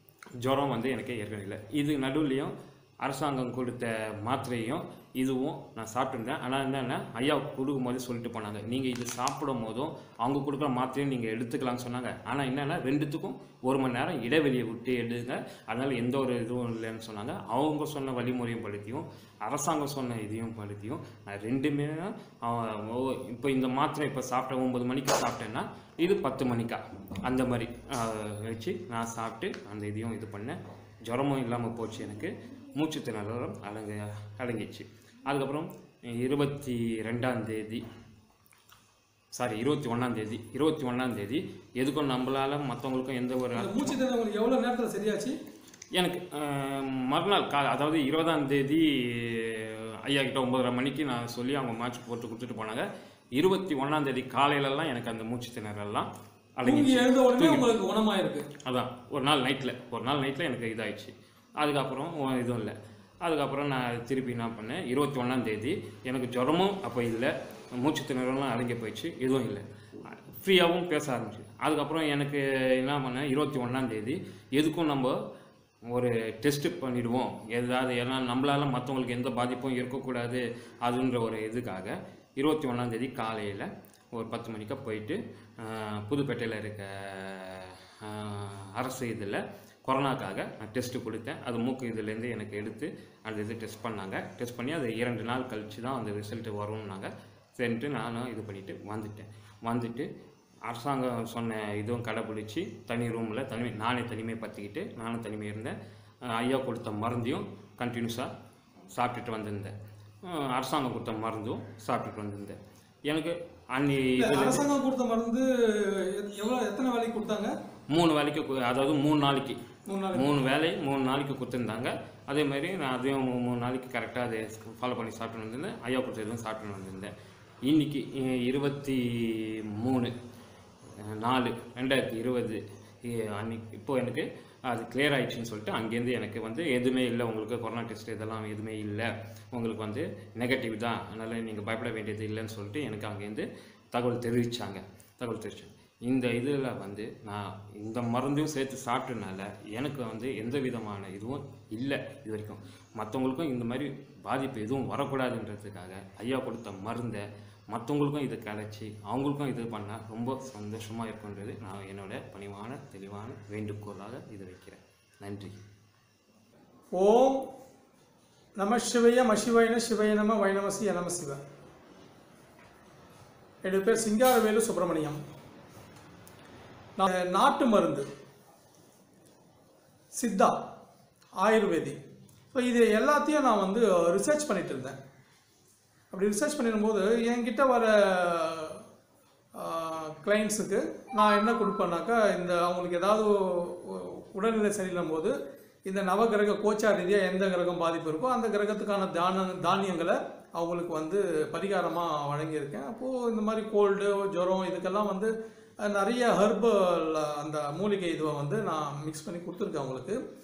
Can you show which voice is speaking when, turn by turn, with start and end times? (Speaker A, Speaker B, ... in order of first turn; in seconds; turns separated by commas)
Speaker A: 0.4-37.8, Speaker A: 39.3-44.0, Speaker B: 43.6-45.4, Speaker A: 45.9-57.7, Speaker B: 56.6-58.5, Speaker A: 58.6-75.2, Speaker A: 75.9-100.1, Speaker A: 100.7-108.3, Speaker A: 108.9-114.6, Speaker B: 114.2-117.5, Speaker A: 117.9-119.6, Speaker B: 119.9-120.3, Speaker A: 120.1-127.1, Speaker A: 127.6-130.1, Speaker A: 131.1-165.6, Speaker B: 166.9-167.4, Speaker B: 168.6-171.4, Speaker B: 173.6-175.2, Speaker B: 177.0-178.1, Speaker B: 180.1-180.6, Speaker B: 181.4-182.0, Speaker B: 182.5-184.9, Speaker B: 186.1-188.8, Speaker B: 189.6-195.3, Speaker B: 195.9-205.3, Speaker B: 205.8-210.2